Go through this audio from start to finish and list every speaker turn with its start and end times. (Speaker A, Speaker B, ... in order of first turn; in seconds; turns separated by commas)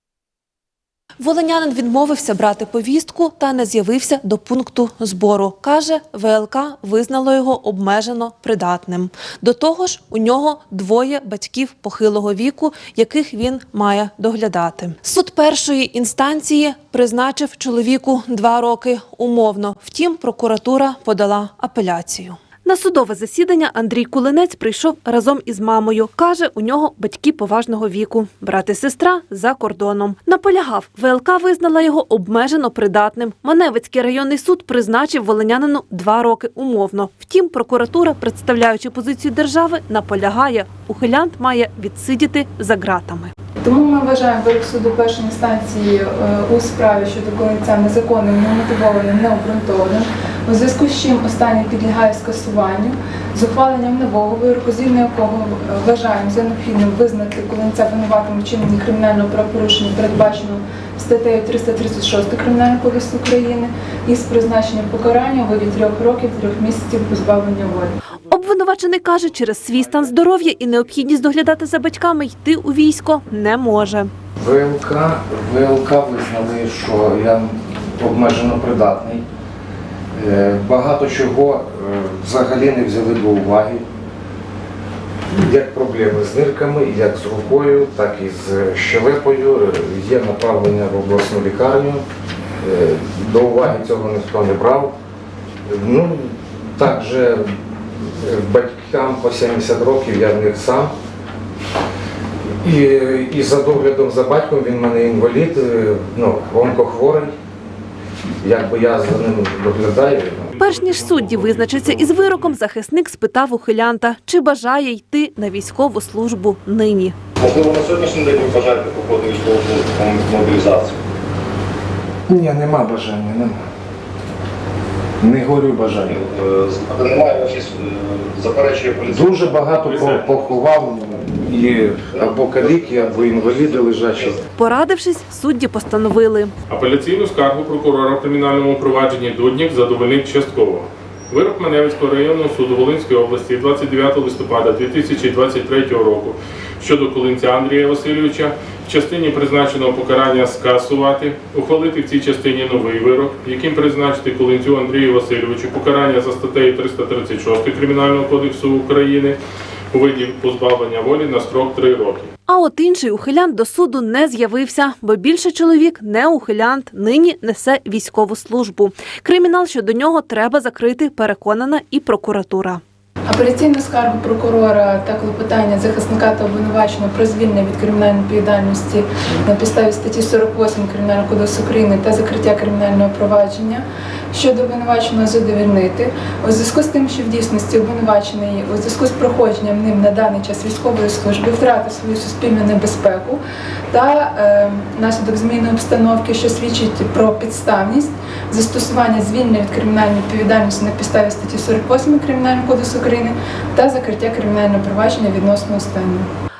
Speaker A: 1.2-43.3, Speaker B: 43.6-68.0, Speaker A: 68.3-74.1, Speaker C: 74.4-79.2, Speaker C: 80.1-83.8, Speaker C: 85.3-92.0, Speaker C: 92.6-94.9, Speaker C: 95.7-97.5, Speaker C: 98.1-100.9, Speaker C: 102.6-107.3, Speaker C: 108.4-110.5, Speaker D: 110.5-112.5, Speaker A: 110.6-117.2, Speaker E: 117.4-121.0, Speaker C: 122.3-123.6, Speaker C: 125.2-126.2, Speaker E: 125.9-130.8, Speaker C: 129.1-134.4, Speaker D: 129.8-130.3, Speaker E: 132.1-134.4, Speaker A: 134.6-136.5, Speaker D: 136.7-159.4, Speaker D: 159.9-162.3, Speaker A: 162.5-172.8, Speaker B: 173.3-193.4, Speaker B: 193.9-206.3